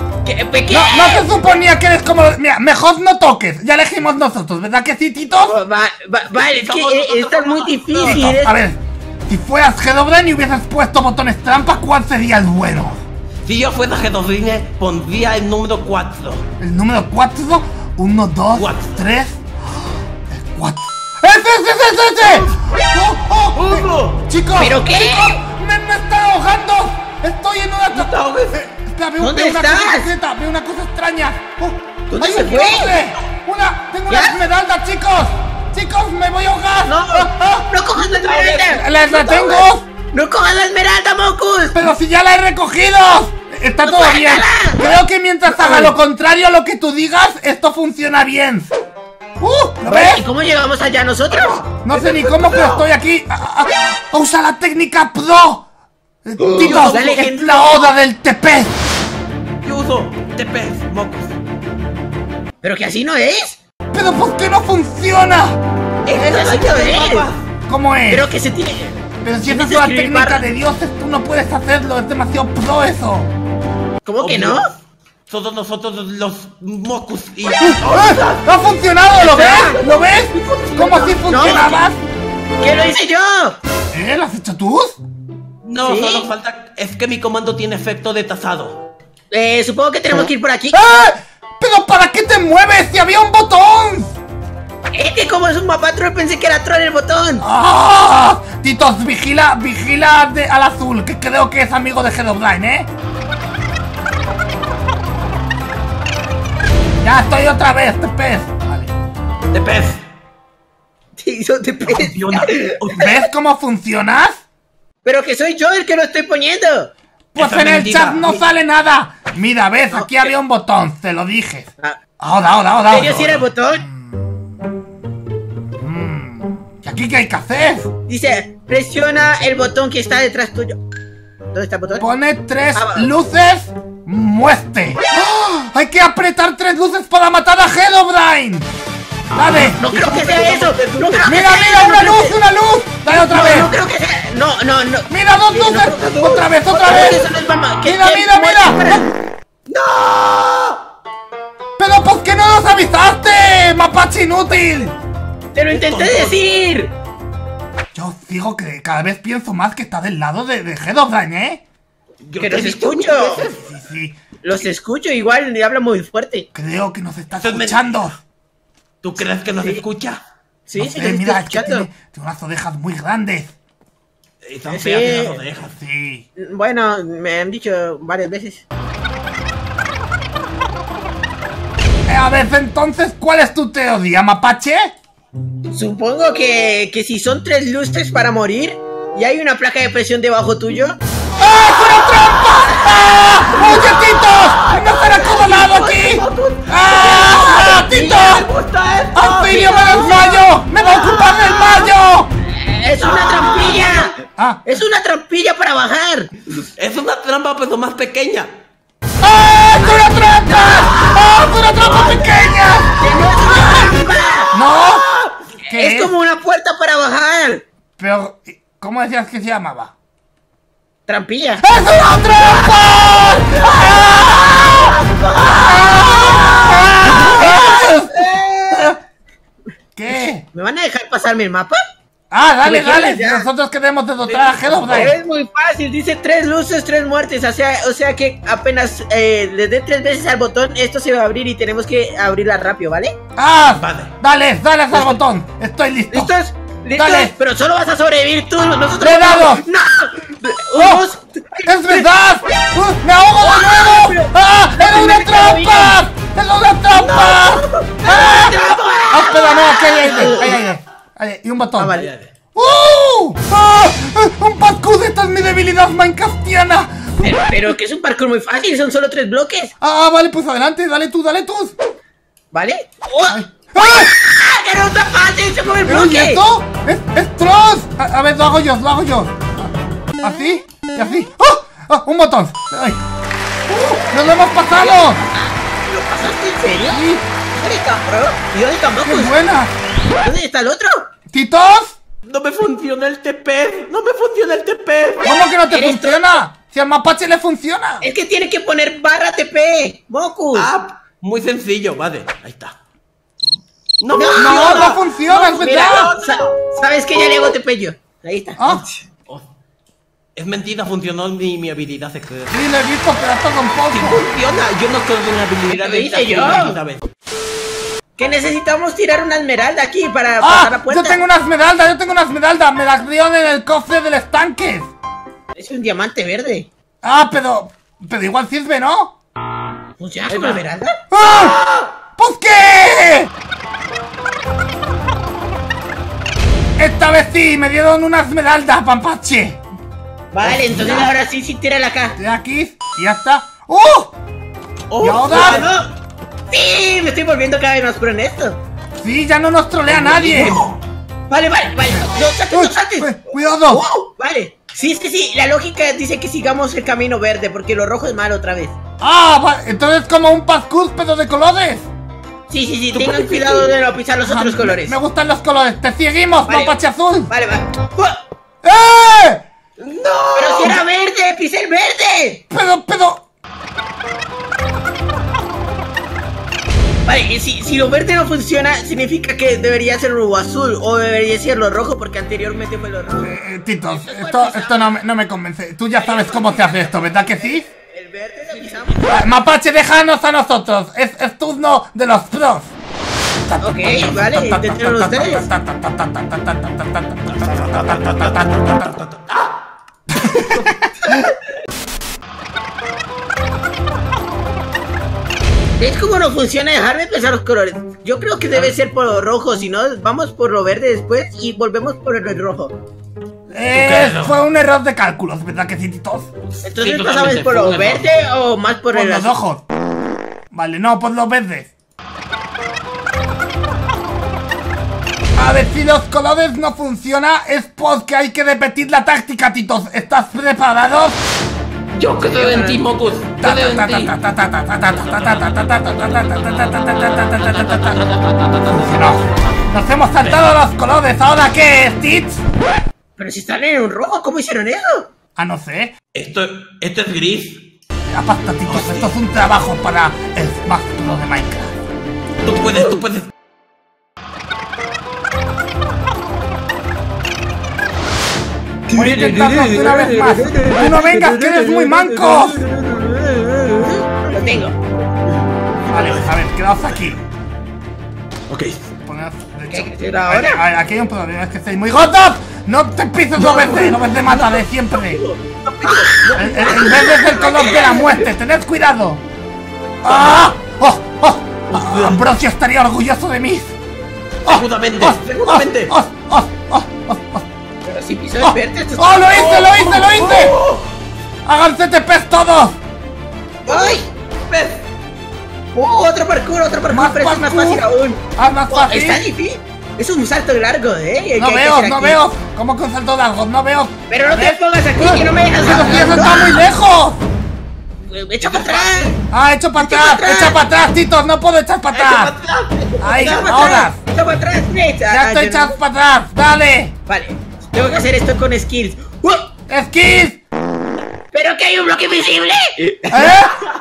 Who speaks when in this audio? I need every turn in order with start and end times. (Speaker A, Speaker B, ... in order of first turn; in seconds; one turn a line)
Speaker A: 0.2-1.5
Speaker B: 0.7-5.6
Speaker A: 5.4-8.6
Speaker C: 6.3-8.3
Speaker B: 8.1-13.0
Speaker C: 13.5-16.4
Speaker B: 16.6-19.4
Speaker C: 18.5-19.0
Speaker B: 20.3-37.7
Speaker C: 23.6-24.2
Speaker A: 24.6-25.4
Speaker C: 27.9-28.6
Speaker A: 29.2-30.1
Speaker A: 32.1-33.0
Speaker A: 34.1-34.4
Speaker A: 36.9-39.6
Speaker C: 38.1-38.7
Speaker B: 38.7-39.9
Speaker A: 40.1-41.8
Speaker B: 41.7-48.7
Speaker A: 43.8-44.8
Speaker C: 45.5-45.9
Speaker B: 49.4-50.2
Speaker A: 49.9-51.6
Speaker C: 51.3-52.9
Speaker B: 51.9-55.6
Speaker B: 56.2-58.7
Speaker A: 56.4-57.9
Speaker C: 56.6-57.2
Speaker C: 59.6-61.3
Speaker A: 62.6-63.6
Speaker B: 63.9-65.6
Speaker C: 66.1-67.4
Speaker B: 66.1-66.4
Speaker A: 66.1-67.3
Speaker B: 67.7-68.3
Speaker A: 68.1-70.5
Speaker B: 69.2-73.3
Speaker A: 74.0-74.7
Speaker C: 74.2-74.7
Speaker C: 75.3-78.5
Speaker B: 77.8-82.0
Speaker A: 79.2-79.8
Speaker C: 79.2-81.6
Speaker A: 81.2-81.8
Speaker A: 82.6-83.6
Speaker B: 83.9-85.0
Speaker C: 85.6-88.8
Speaker A: 85.8-86.3
Speaker A: 89.3-90.8
Speaker B: 90.1-94.2
Speaker A: 94.9-97.4
Speaker B: 97.4-102.9
Speaker B: 107.0-108.9
Speaker C: 109.5-110.0
Speaker A: 111.2-112.8
Speaker C: 111.8-113.1
Speaker B: 113.0-114.4
Speaker A: 115.0-116.9
Speaker B: 117.3-124.3
Speaker C: 117.4-118.4
Speaker A: 119.9-120.3
Speaker A: 122.9-123.8
Speaker B: 125.8-127.9
Speaker A: 128.1-130.8
Speaker A: 131.5-132.1
Speaker B: 132.0-138.7
Speaker A: 132.8-133.1
Speaker B: 139.3-139.8
Speaker A: 139.8-142.4
Speaker C: 139.8-141.3
Speaker B: 141.2-143.7
Speaker A: 143.1-149.1
Speaker B: 145.1-147.2
Speaker C: 146.0-147.2
Speaker B: 147.8-149.1
Speaker C: 149.7-150.8
Speaker B: 151.8-154.9
Speaker A: 155.5-156.9
Speaker C: 155.7-156.4
Speaker B: 157.9-161.6
Speaker C: 162.2-163.6
Speaker A: 162.4-163.4
Speaker B: 163.5-164.2
Speaker A: 164.4-166.5
Speaker B: 166.5-168.2
Speaker C: 167.4-168.0
Speaker C: 169.0-170.2
Speaker A: 170.7-171.9
Speaker B: 170.8-173.5
Speaker C: 174.4-175.8
Speaker A: 174.7-175.4
Speaker B: 175.8-176.2
Speaker A: 176.4-178.6
Speaker B: 182.1-184.9
Speaker A: 185.7-191.0
Speaker B: 191.4-198.5
Speaker C: 193.5-201.9
Speaker B: 199.1-202.3
Speaker A: 199.5-200.4
Speaker A: 202.4-204.1
Speaker C: 203.0-204.1
Speaker B: 204.4-204.6
Speaker A: 204.7-206.3
Speaker C: 206.8-208.5
Speaker B: 209.2-214.0
Speaker C: 210.6-211.2
Speaker C: 211.8-212.3
Speaker A: 213.0-214.5
Speaker C: 214.0-215.3
Speaker B: 214.5-215.1
Speaker A: 215.7-217.6
Speaker B: 215.7-216.1
Speaker B: 218.0-219.9
Speaker A: 221.1-221.6
Speaker B: 221.6-228.2
Speaker C: 222.4-227.2
Speaker A: 227.2-229.0
Speaker B: 230.0-230.4
Speaker A: 230.5-231.8
Speaker B: 232.3-235.2
Speaker A: 232.6-233.5
Speaker C: 234.2-235.1
Speaker A: 234.9-243.2
Speaker B: 243.4-246.3
Speaker C: 243.7-244.1
Speaker A: 244.9-245.2
Speaker A: 246.1-252.1
Speaker B: 247.0-247.3
Speaker B: 249.0-249.7
Speaker B: 250.8-251.0
Speaker B: 251.7-258.6
Speaker A: 253.4-256.0
Speaker C: 256.9-259.0
Speaker A: 258.1-260.6
Speaker B: 259.1-262.0
Speaker C: 260.1-260.6
Speaker A: 261.8-262.1
Speaker C: 261.9-262.3
Speaker B: 262.6-267.4
Speaker A: 267.2-269.7
Speaker B: 269.8-271.7
Speaker A: 272.5-276.4
Speaker B: 273.3-274.1
Speaker B: 275.9-279.7
Speaker B: 280.2-283.0
Speaker B: 283.7-285.2
Speaker A: 284.7-289.4
Speaker B: 286.9-287.2
Speaker B: 289.0-289.7
Speaker A: 290.2-291.1
Speaker B: 291.3-291.9
Speaker C: 292.2-295.3
Speaker B: 295.2-298.1
Speaker A: 295.7-296.4
Speaker A: 298.0-300.7
Speaker C: 300.5-302.8
Speaker C: 304.0-306.5
Speaker A: 304.1-304.9
Speaker B: 304.4-306.1
Speaker A: 305.5-309.0
Speaker B: 308.6-308.8
Speaker C: 310.4-312.6
Speaker B: 312.5-314.2
Speaker C: 313.9-317.0
Speaker A: 315.7-316.8
Speaker A: 318.2-321.2
Speaker B: 320.4-324.9
Speaker A: 325.6-326.7
Speaker B: 327.0-329.1
Speaker A: 330.0-331.0
Speaker C: 330.3-330.6
Speaker B: 331.1-331.6
Speaker C: 331.2-331.9
Speaker B: 332.2-333.3
Speaker B: 336.8-339.6
Speaker A: 340.3-342.2
Speaker C: 340.4-341.1
Speaker B: 342.2-344.1
Speaker C: 344.9-345.7
Speaker B: 345.0-345.6
Speaker A: 345.3-345.9
Speaker A: 346.5-348.6
Speaker B: 349.0-350.6
Speaker C: 349.9-350.8
Speaker A: 351.3-358.8
Speaker B: 352.5-353.8
Speaker B: 359.0-361.9
Speaker A: 362.5-365.0
Speaker C: 362.9-363.7
Speaker B: 364.2-367.3
Speaker A: 366.5-366.8
Speaker A: 367.3-368.1
Speaker B: 368.6-369.4
Speaker C: 369.8-370.8
Speaker A: 370.4-372.4
Speaker B: 372.5-373.2
Speaker A: 377.1-383.4
Speaker B: 383.2-387.7
Speaker A: 383.9-385.0
Speaker A: 385.9-389.3
Speaker B: 389.1-392.7
Speaker B: 393.5-398.7
Speaker A: 393.6-395.5
Speaker C: 397.3-399.5
Speaker C: 400.3-400.7
Speaker A: 405.8-412.8
Speaker B: 413.5-416.3
Speaker C: 413.7-414.4
Speaker C: 416.6-418.1
Speaker A: 416.6-419.3
Speaker B: 418.9-419.6
Speaker B: 420.5-421.7
Speaker B: 425.4-431.2
Speaker C: 431.9-434.1
Speaker A: 432.2-432.9
Speaker B: 433.4-438.0
Speaker C: 435.1-435.6
Speaker C: 437.4-439.3
Speaker B: 438.7-442.4
Speaker A: 443.2-445.1
Speaker B: 445.4-445.9
Speaker C: 446.1-447.7
Speaker B: 448.1-451.8
Speaker C: 448.7-449.1
Speaker C: 452.4-453.3
Speaker C: 458.9-462.6
Speaker B: 458.9-462.6
Speaker A: 462.6-464.8
Speaker B: 465.8-467.2
Speaker C: 465.9-466.3
Speaker C: 468.5-468.8
Speaker B: 469.1-475.2
Speaker A: 469.7-470.6
Speaker C: 473.4-478.2
Speaker A: 475.7-477.9
Speaker B: 476.4-479.2
Speaker B: 480.0-483.7
Speaker C: 480.1-480.5
Speaker C: 481.7-482.2
Speaker C: 484.5-485.9
Speaker B: 484.5-487.5
Speaker A: 487.9-489.3
Speaker B: 488.4-490.6
Speaker C: 489.3-490.9
Speaker B: 491.5-492.8
Speaker A: 493.7-494.1
Speaker C: 493.7-494.8
Speaker A: 495.7-502.2
Speaker B: 496.9-497.9
Speaker B: 498.4-499.2
Speaker B: 501.4-507.2
Speaker A: 504.1-506.6
Speaker C: 505.7-506.3
Speaker A: 508.1-509.1
Speaker C: 508.4-509.1
Speaker B: 509.3-512.3
Speaker A: 509.8-510.6
Speaker C: 511.9-513.9
Speaker B: 513.0-514.0
Speaker A: 513.2-515.8
Speaker B: 515.1-517.0
Speaker A: 517.1-519.5
Speaker B: 519.7-520.4
Speaker A: 521.3-523.3
Speaker B: 523.1-523.6